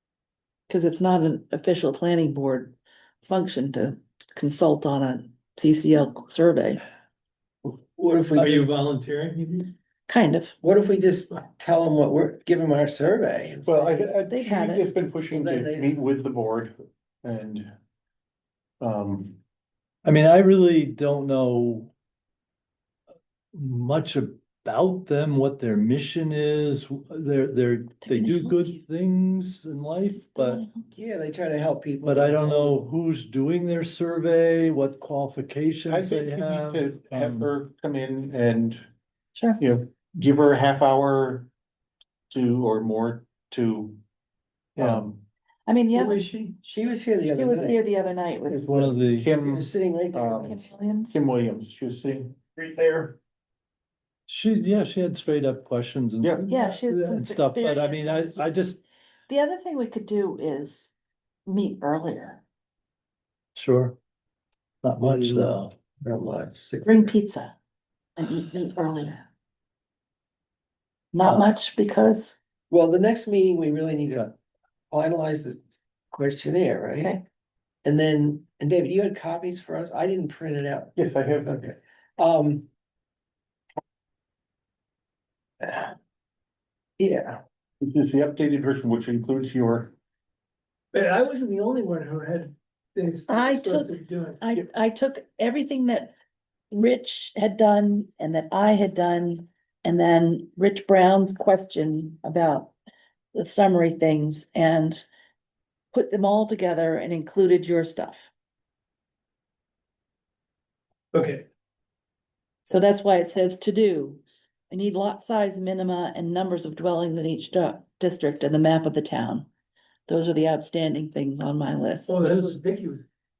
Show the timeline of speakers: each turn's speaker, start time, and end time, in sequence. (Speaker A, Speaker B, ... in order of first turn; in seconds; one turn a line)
Speaker A: 0.7-6.8
Speaker B: 7.7-8.7
Speaker C: 8.4-9.7
Speaker A: 10.1-10.6
Speaker B: 10.6-14.1
Speaker D: 13.7-17.7
Speaker A: 14.3-14.8
Speaker B: 15.3-15.9
Speaker D: 18.8-19.4
Speaker E: 20.0-21.9
Speaker E: 23.5-30.6
Speaker A: 28.1-28.8
Speaker A: 30.3-30.9
Speaker B: 30.9-32.8
Speaker E: 32.0-37.5
Speaker D: 35.9-38.8
Speaker A: 39.4-39.6
Speaker D: 39.6-41.5
Speaker D: 42.3-44.0
Speaker D: 44.8-45.2
Speaker E: 44.8-45.0
Speaker A: 45.7-46.3
Speaker C: 46.0-46.6
Speaker B: 46.6-47.8
Speaker A: 47.3-48.6
Speaker D: 48.5-53.2
Speaker E: 48.7-49.3
Speaker B: 49.4-50.6
Speaker A: 50.5-51.2
Speaker E: 54.3-58.8
Speaker D: 56.2-56.5
Speaker A: 56.5-58.5
Speaker A: 59.3-60.9
Speaker A: 61.5-62.4
Speaker E: 63.5-64.0
Speaker E: 64.8-65.7
Speaker B: 65.0-65.5
Speaker B: 66.0-67.1
Speaker A: 66.8-67.5
Speaker A: 68.2-69.2
Speaker A: 71.1-72.4
Speaker E: 71.2-71.5
Speaker B: 72.7-74.3
Speaker B: 74.9-75.6
Speaker B: 76.1-77.1
Speaker B: 77.8-80.9
Speaker D: 81.0-81.7
Speaker B: 81.5-82.7
Speaker B: 85.6-86.0
Speaker B: 87.0-87.4
Speaker D: 87.8-89.9
Speaker C: 90.9-94.4
Speaker A: 93.3-96.2
Speaker A: 96.7-102.7
Speaker A: 103.3-105.1
Speaker A: 105.9-108.3
Speaker C: 111.1-111.4
Speaker A: 112.7-119.5
Speaker A: 120.1-122.6
Speaker C: 122.1-123.1